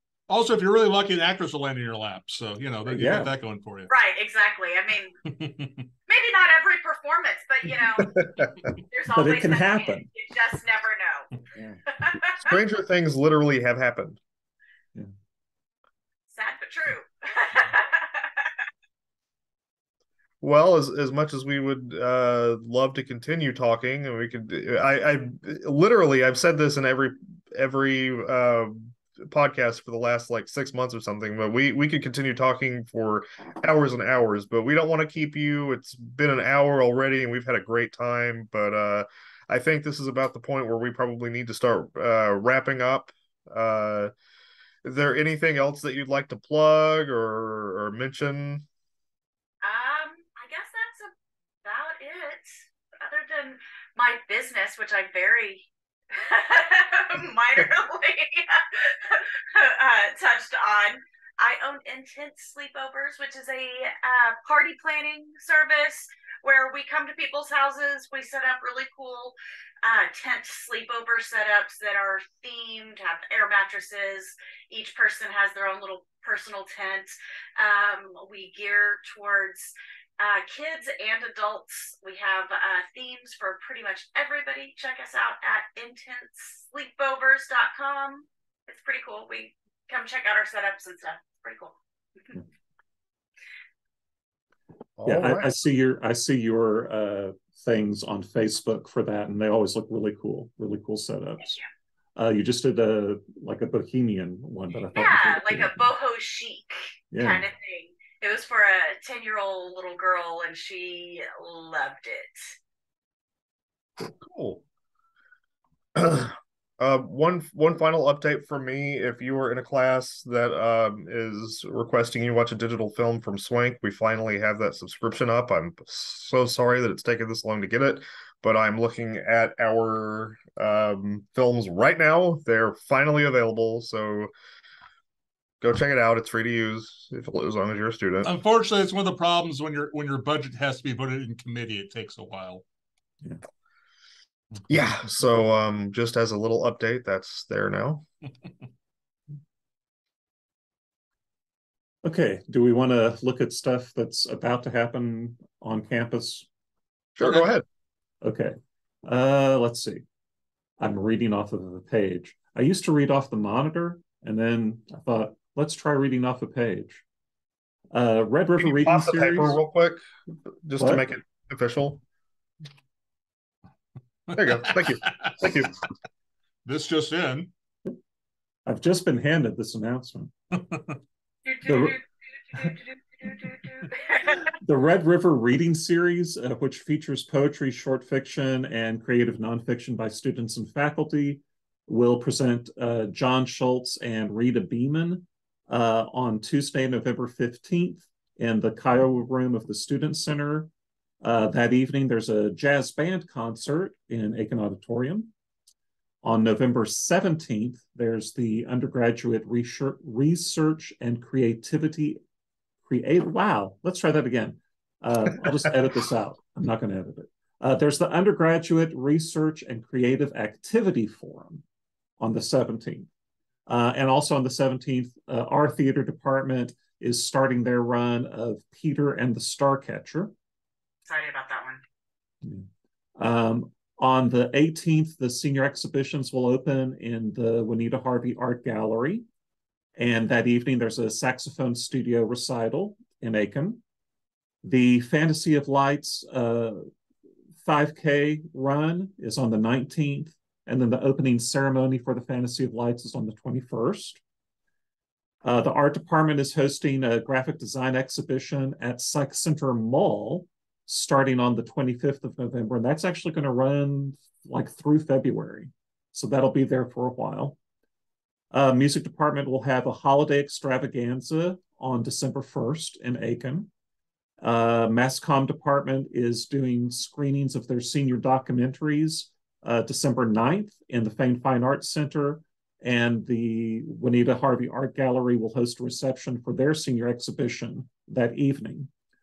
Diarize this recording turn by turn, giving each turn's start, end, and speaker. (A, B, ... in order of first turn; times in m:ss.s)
0:00.3-0:03.9 A
0:02.9-0:03.3 B
0:03.9-0:05.1 C
0:05.3-0:05.8 A
0:06.1-0:08.1 C
0:08.0-0:08.5 D
0:08.9-0:11.3 C
0:09.1-0:10.1 B
0:11.9-0:12.5 C
0:12.4-0:14.2 D
0:16.3-0:18.5 C
0:20.4-0:44.1 D
0:44.8-0:48.6 D
0:49.6-0:51.1 C
0:51.6-1:31.8 C
1:35.0-1:35.5 D
1:35.0-1:41.6 B
1:42.2-1:45.8 B
1:45.0-1:52.6 C
1:47.1-1:47.4 B
1:54.0-1:54.6 D
1:56.0-2:14.3 D
2:15.6-2:18.3 D
2:18.2-2:22.6 A
2:24.7-2:28.0 D
2:32.0-2:36.5 B
2:37.2-2:37.6 D
2:38.2-2:40.0 B
2:40.8-2:47.0 B
2:47.9-2:49.6 B
2:48.6-2:50.0 D
2:50.6-2:52.0 D
2:50.8-2:51.0 B
2:54.3-2:55.8 D
2:56.6-2:57.5 A
2:58.7-3:00.3 B
3:01.5-3:04.5 C
3:01.6-3:02.0 B
3:04.5-3:20.7 B
3:21.2-3:25.3 B
3:26.2-3:32.2 B
3:32.8-3:41.6 B
3:42.2-3:43.1 B
3:43.7-3:50.3 B
3:51.1-3:51.8 C
3:52.4-3:59.3 B
4:00.0-4:03.8 B
4:04.6-4:06.9 B
4:07.6-4:14.2 B
4:15.4-4:27.6 B
4:28.5-4:33.7 B
4:34.4-4:48.9 B